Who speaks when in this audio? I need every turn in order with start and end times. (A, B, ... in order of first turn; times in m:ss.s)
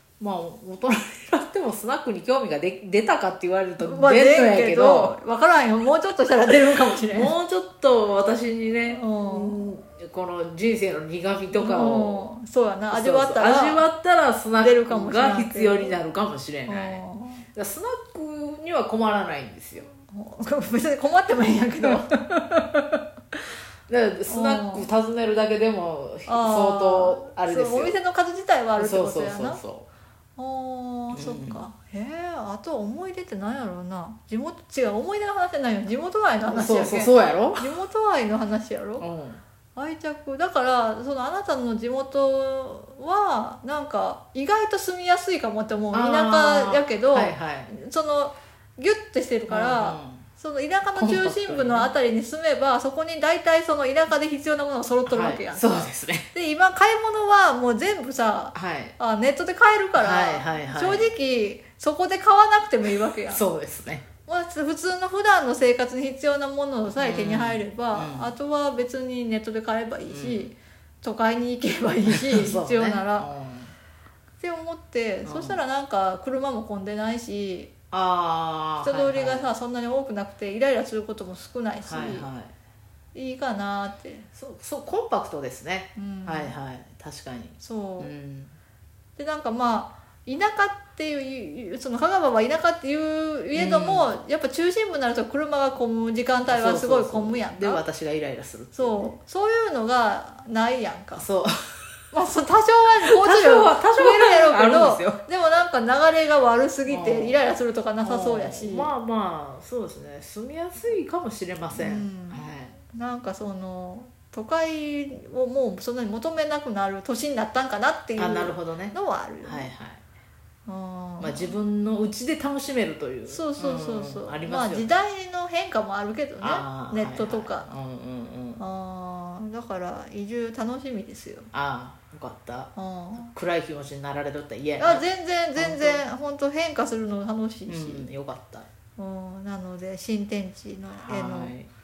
0:00.2-0:05.2 A
0:03.8-0:07.3 B
0:07.0-0:12.3 A
0:08.9-0:09.6 B
0:11.5-0:13.9 B
0:12.9-0:19.9 A
0:14.6-0:16.0 B
0:16.6-0:17.4 B
0:20.0-0:22.1 B
0:21.8-0:28.0 A
0:24.3-0:24.9 B
0:26.3-0:29.6 B
0:28.8-0:29.9 A
0:30.4-0:39.0 B
0:31.1-0:31.6 A
0:36.5-0:37.7 A
0:39.0-0:39.4 A
0:39.8-1:03.4 B
0:45.9-0:47.7 A
0:49.5-0:50.3 A
0:50.9-0:51.9 A
0:55.1-0:56.3 A
0:58.5-0:59.0 A
1:00.0-1:01.1 A
1:03.3-1:04.1 A
1:04.2-1:13.3 B
1:07.0-1:08.3 A
1:10.1-1:10.5 A
1:12.0-1:13.7 A
1:14.4-1:17.7 B
1:15.2-1:15.6 A
1:17.9-1:19.5 A
1:18.8-1:22.3 B
1:21.8-1:22.5 A
1:23.1-1:24.3 B
1:24.3-1:28.5 A
1:26.0-1:26.5 B
1:27.6-1:28.1 B
1:29.2-1:37.8 B
1:33.5-1:34.1 A
1:36.5-1:39.1 A
1:38.7-1:41.2 B
1:41.1-1:41.5 A
1:42.1-1:48.9 B
1:43.0-1:45.2 A
1:46.9-1:47.4 A
1:48.0-1:52.8 A
1:51.7-1:59.7 B
1:58.2-2:00.0 A
2:00.6-2:01.6 B
2:01.2-2:04.9 A
2:03.3-2:07.7 B
2:06.4-2:08.6 A
2:08.6-2:11.5 B
2:11.5-2:16.0 A
2:12.8-2:13.3 B
2:14.8-2:18.1 B
2:17.7-2:18.7 A
2:19.0-2:21.6 B
2:21.0-2:21.7 A